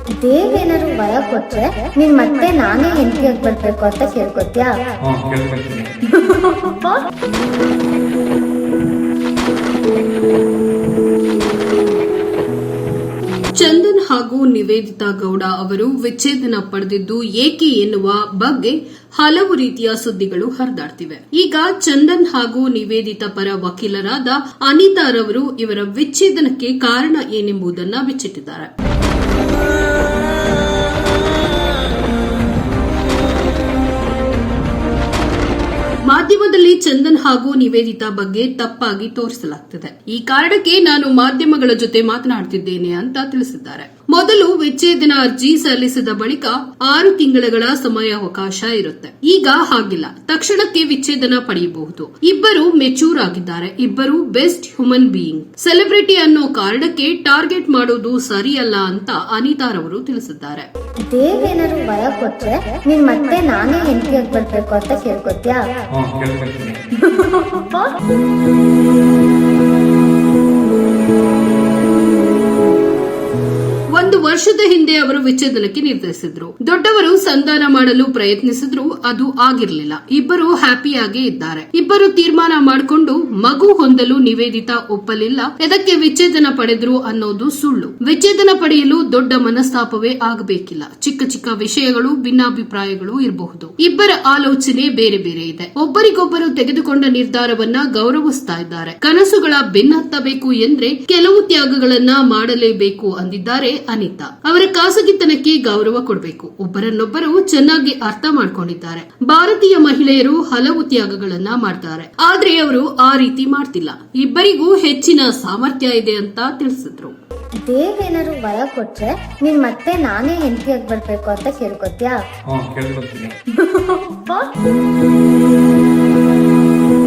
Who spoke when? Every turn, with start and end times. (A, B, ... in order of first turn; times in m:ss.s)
0:00.2-0:04.8 A
0:05.0-0:05.9 B
0:06.2-0:06.8 C
0:13.5-0:28.7 C
0:36.1-1:00.7 C
1:01.1-1:05.7 A
1:05.9-1:06.8 B
1:07.4-1:07.7 C
1:13.9-1:57.1 C
1:57.7-2:02.2 A
2:02.5-2:03.4 B
2:04.1-2:04.5 A